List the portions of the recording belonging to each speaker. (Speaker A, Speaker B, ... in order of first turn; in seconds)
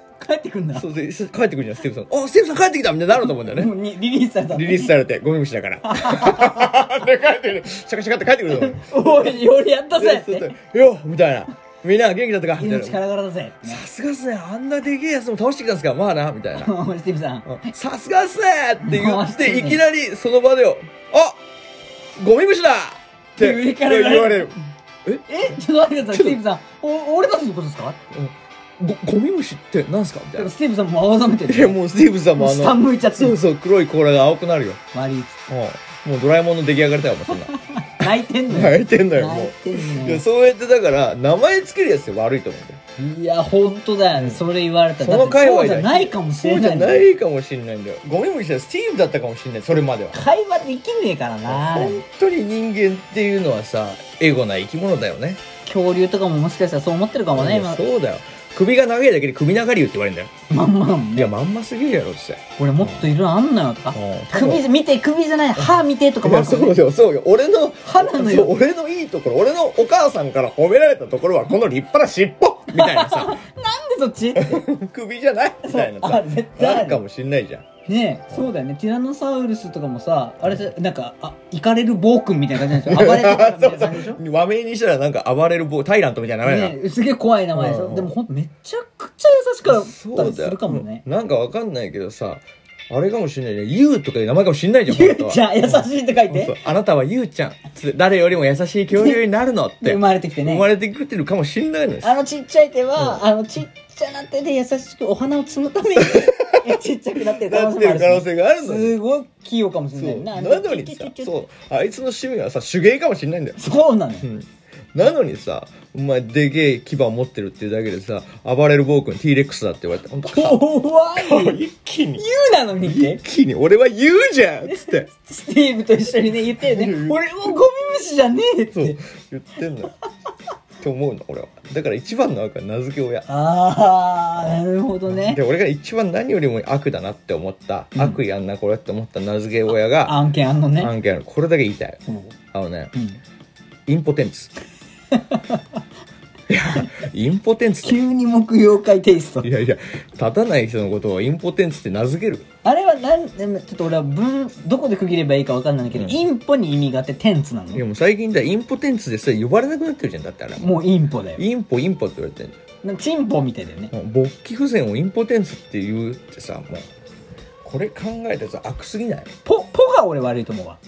Speaker A: 0.2-0.9, 3.2-4.9, 5.9-6.7, 8.5-10.5, 12.6-13.8, 16.6-17.5, 18.8-19.8, 23.4-24.6, 25.3-28.0, 30.4-31.8, 32.3-33.4, 34.9-35.4, 37.5-40.2, 43.0-47.1, 50.1-52.0, 55.6-57.9, 60.5-61.3, 62.6-66.8, 67.8-68.6, 72.7-74.7, 75.6-77.0, 77.9-84.2, 86.4-91.0, 94.9-96.6, 98.9-99.2, 99.8-100.7, 102.0-111.3, 113.6-114.3, 120.2-121.6, 122.2-123.2, 124.7-129.0, 133.3-135.4, 137.9-138.2, 140.1-140.9, 142.9-143.2, 145.1-145.6, 147.8-149.5, 152.6-157.8, 160.6-161.4, 162.8-163.9, 169.4-170.8
Speaker B: 0.7-3.8, 4.5-9.4, 9.9-13.0, 13.6-16.7, 17.5-21.4, 22.2-25.3, 26.1-26.4, 28.1-30.5, 31.5-34.8, 35.5-42.8, 45.0-50.2, 51.5-55.4, 57.4-60.3, 61.1-63.0, 63.9-64.7, 65.6-73.4, 74.4-77.7, 82.6-86.8, 87.5-88.1, 89.7-102.2, 106.0-109.0, 110.0-113.6, 114.2-122.2, 122.8-125.1, 126.6-127.5, 128.8-129.9, 130.8-133.3, 135.1-140.2, 140.8-142.0, 142.5-142.9, 143.9-144.5, 146.5-148.0, 149.4-152.5, 155.9-156.2, 157.7-160.8, 161.4-162.6, 163.9-166.9, 167.6-169.3